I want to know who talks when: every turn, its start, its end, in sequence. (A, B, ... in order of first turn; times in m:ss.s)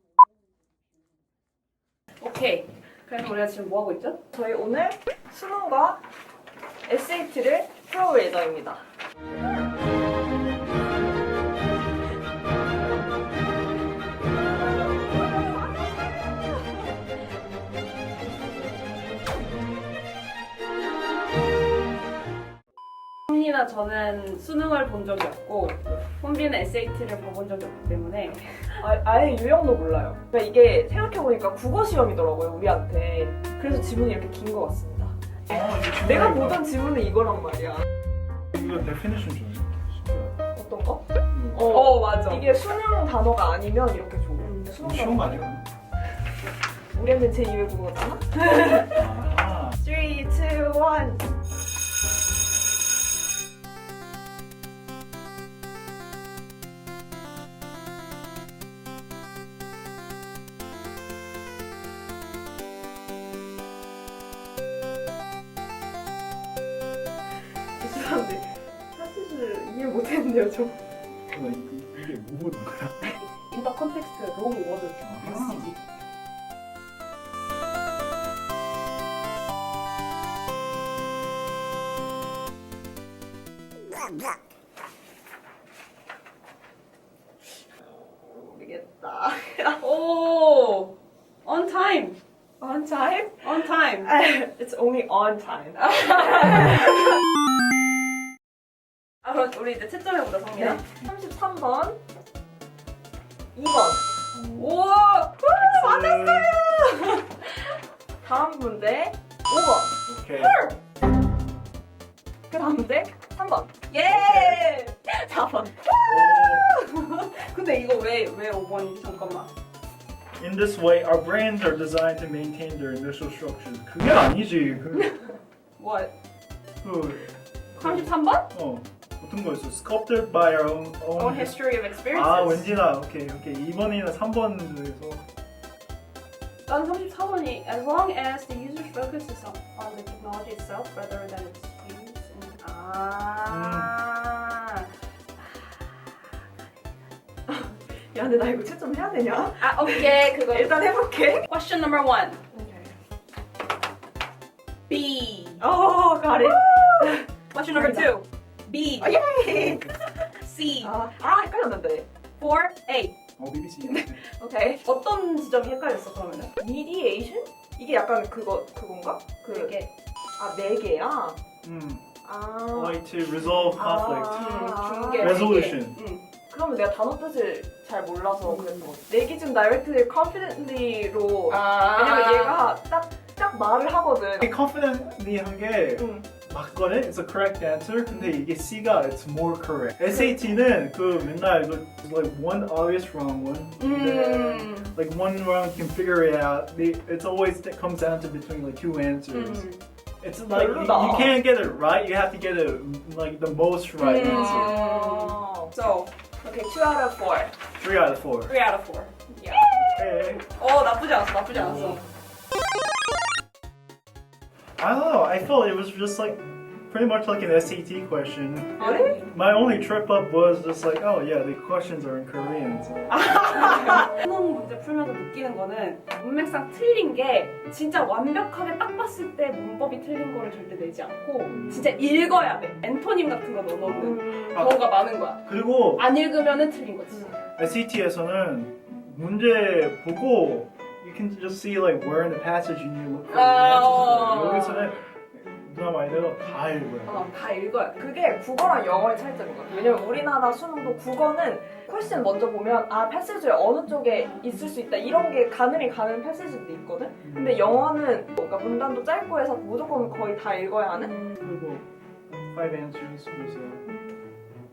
0:02.2-0:04.2 A
0:04.3-0:06.0 B
0:06.9-0:08.8 B
0:23.3-0:28.8 A
0:28.8-0:37.8 B
0:35.5-0:36.7 C
0:38.5-0:40.3 C
0:40.5-0:45.5 B
0:41.3-0:41.7 C
0:41.6-0:42.5 A
0:44.4-0:44.8 A
0:44.8-0:45.6 C
0:46.9-0:49.1 B
0:48.9-0:49.8 C
0:49.8-0:51.2 B
1:07.8-1:10.8 B
1:11.3-1:13.2 C
1:13.0-1:15.8 A
1:15.0-1:15.7 C
1:27.8-1:29.8 B
1:29.7-1:32.2 A
1:32.6-1:37.1 B
1:33.3-1:34.2 A
1:35.8-1:37.2 A
1:39.2-1:40.8 A
1:40.5-1:42.0 B
1:43.6-1:44.0 B
1:44.5-1:46.3 A
1:45.6-1:46.6 C
1:45.8-1:46.8 B
1:46.8-1:47.2 A
1:48.2-1:50.8 B
1:50.1-1:50.6 C
1:52.5-1:56.4 B
1:53.9-1:55.1 A
1:56.1-1:56.6 C
1:56.6-1:59.5 A
2:00.4-2:05.2 C
2:05.8-2:06.1 A
2:06.8-2:15.2 C
2:07.8-2:08.5 A
2:11.2-2:12.7 A
2:16.7-2:26.2 A
2:23.5-2:24.0 C
2:27.5-2:31.5 B
2:29.6-2:32.4 A
2:32.5-2:32.9 B
2:34.9-2:35.6 A
2:35.6-2:38.1 B
2:36.4-2:41.0 A
2:39.0-2:39.8 B
2:40.8-2:42.1 B
2:42.4-2:43.2 A
2:43.4-2:44.2 C
2:44.2-2:44.8 B
2:44.8-2:46.5 A
2:46.6-2:49.8 B
2:49.5-2:49.9 A
2:50.4-2:51.4 B
2:51.6-2:52.1 C
2:52.2-2:53.0 B
2:52.7-2:54.7 C
2:53.7-2:55.5 B
2:54.3-2:56.2 A
2:55.2-2:56.0 C
2:56.5-3:04.5 B
2:58.4-2:58.9 A
3:01.5-3:02.6 A
3:04.4-3:19.7 C
3:06.0-3:06.3 B
3:13.8-3:14.9 A
3:19.3-3:19.8 A
3:20.2-3:24.8 C
3:20.5-3:21.4 B
3:24.0-3:26.1 A
3:24.1-3:25.8 B
3:26.4-3:27.5 B
3:27.8-3:28.5 C
3:28.5-3:29.7 A
3:29.4-3:30.0 B
3:29.6-3:30.4 C
3:30.4-3:32.0 A
3:31.5-3:32.0 C
3:34.8-3:43.2 C
3:38.8-3:39.3 A
3:38.8-3:39.2 B
3:43.1-3:44.0 B
3:43.2-3:57.4 A
3:54.0-3:54.5 B
3:54.6-3:54.8 C
3:55.5-3:56.1 C
3:57.6-4:07.3 C
4:03.3-4:05.0 A
4:07.0-4:08.0 A
4:07.9-4:21.2 B
4:09.7-4:10.2 A
4:17.2-4:17.6 C
4:21.0-4:21.4 A
4:21.4-4:23.9 C